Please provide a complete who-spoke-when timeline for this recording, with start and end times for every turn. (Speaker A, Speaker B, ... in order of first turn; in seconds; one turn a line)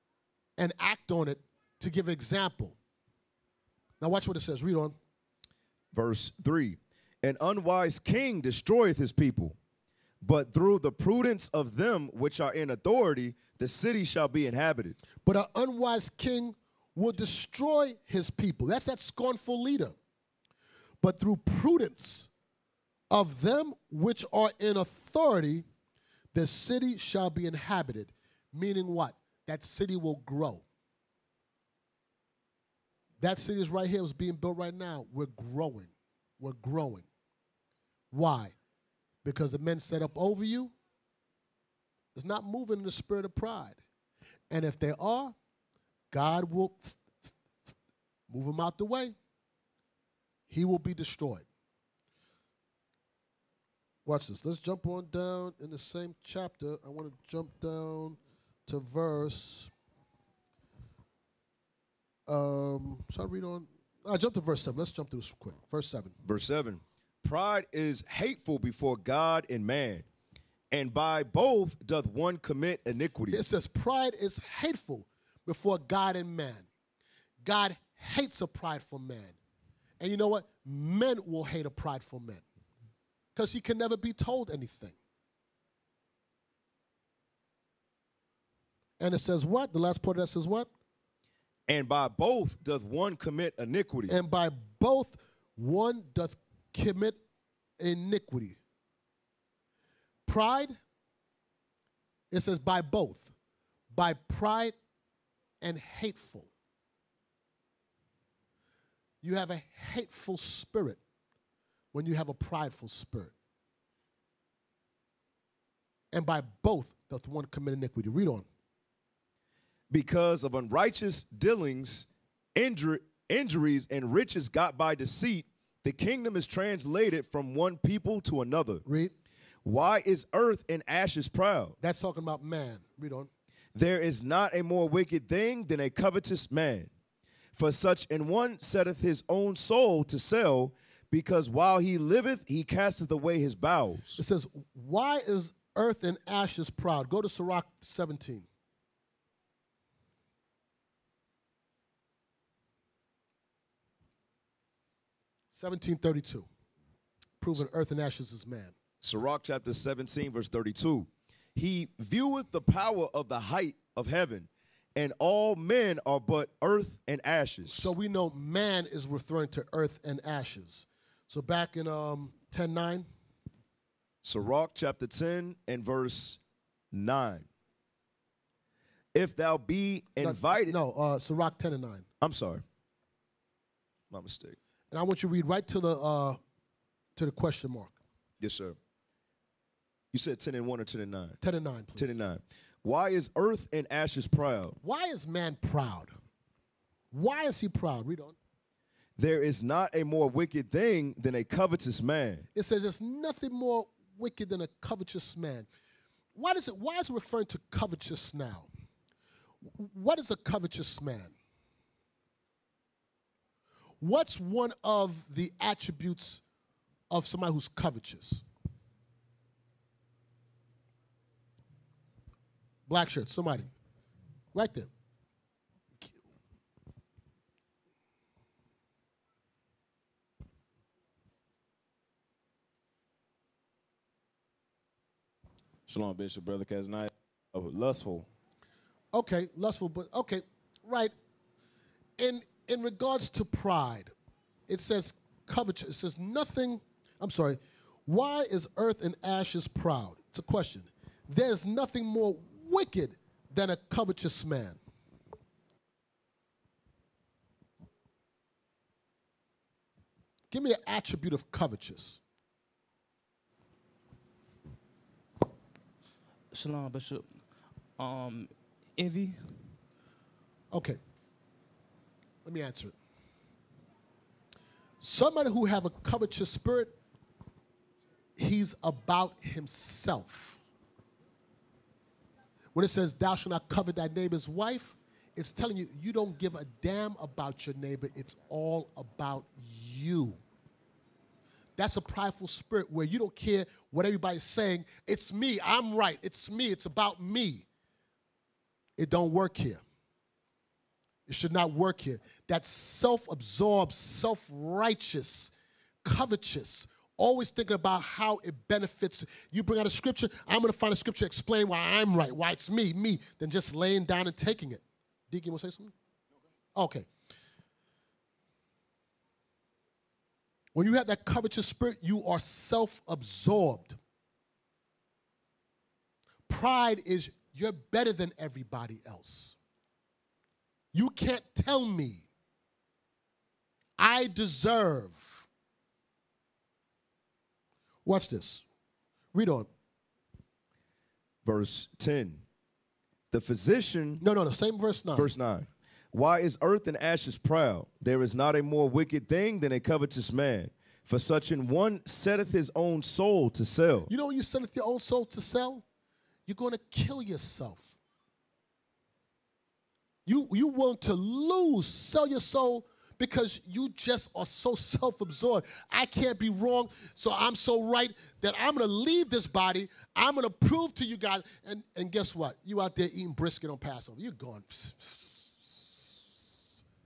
Speaker A: 0.6-2.8
Speaker A: 4.0-5.0
Speaker B: 5.9-9.6
Speaker B: 10.2-15.0
Speaker A: 15.2-19.9
Speaker A: 21.0-22.3
Speaker A: 23.1-25.6
Speaker A: 26.3-30.6
Speaker A: 33.2-37.0
Speaker A: 38.1-38.5
Speaker A: 39.2-40.7
Speaker A: 42.1-43.8
Speaker A: 44.5-45.3
Speaker A: 46.1-47.7
Speaker A: 48.3-49.1
Speaker A: 50.5-51.4
Speaker A: 54.0-59.7
Speaker A: 62.3-66.1
Speaker B: 66.2-70.0
Speaker B: 70.7-73.4
Speaker A: 73.3-76.7
Speaker A: 77.4-79.3
Speaker A: 80.0-82.4
Speaker A: 83.3-85.0
Speaker A: 89.0-90.7
Speaker B: 91.7-94.1
Speaker A: 94.1-97.2
Speaker A: 97.8-98.6
Speaker A: 100.3-100.8
Speaker A: 102.3-103.3
Speaker A: 103.9-104.7
Speaker A: 105.6-106.5
Speaker A: 109.2-111.0
Speaker A: 111.9-113.3
Speaker A: 116.1-118.5
Speaker B: 119.9-128.8
Speaker A: 128.8-129.1
Speaker B: 129.6-131.8
Speaker A: 131.8-133.3
Speaker B: 133.7-136.9
Speaker B: 137.5-144.2
Speaker A: 144.2-148.5
Speaker A: 155.5-156.5
Speaker A: 157.4-158.7
Speaker B: 159.0-167.9
Speaker A: 167.7-173.1
Speaker B: 174.2-176.4
Speaker B: 176.9-177.5
Speaker B: 179.1-180.8
Speaker A: 180.2-182.1
Speaker B: 182.2-182.6
Speaker B: 184.1-184.6
Speaker A: 184.9-186.4
Speaker A: 187.2-187.9
Speaker B: 188.4-188.8
Speaker B: 190.1-191.4
Speaker A: 191.4-192.2
Speaker B: 192.0-194.8
Speaker A: 194.8-196.1
Speaker A: 197.1-198.3
Speaker B: 199.2-202.4
Speaker A: 202.5-205.7
Speaker A: 206.3-208.7
Speaker A: 209.7-211.3
Speaker A: 214.0-216.4
Speaker A: 217.1-218.4
Speaker A: 222.9-223.7
Speaker A: 224.5-224.9
Speaker C: 235.9-238.3
Speaker A: 239.1-241.1
Speaker A: 242.2-244.1
Speaker A: 244.7-254.8
Speaker A: 260.5-262.2
Speaker C: 266.5-267.4
Speaker C: 268.0-269.7
Speaker A: 270.7-271.0
Speaker A: 272.4-272.9
Speaker A: 275.0-276.9
Speaker A: 278.4-280.6
Speaker A: 282.7-290.4
Speaker A: 291.8-297.6
Speaker A: 299.0-299.8
Speaker A: 301.3-305.5
Speaker A: 306.0-315.9
Speaker A: 316.8-317.1
Speaker A: 320.7-324.0
Speaker A: 326.5-329.6
Speaker A: 330.9-332.2
Speaker A: 334.0-335.5
Speaker A: 338.0-338.6
Speaker A: 339.3-339.7
Speaker B: 341.4-342.4
Speaker B: 343.3-344.2
Speaker A: 344.2-345.3
Speaker B: 345.1-354.1
Speaker A: 354.1-355.8
Speaker A: 356.5-357.9
Speaker A: 360.2-376.6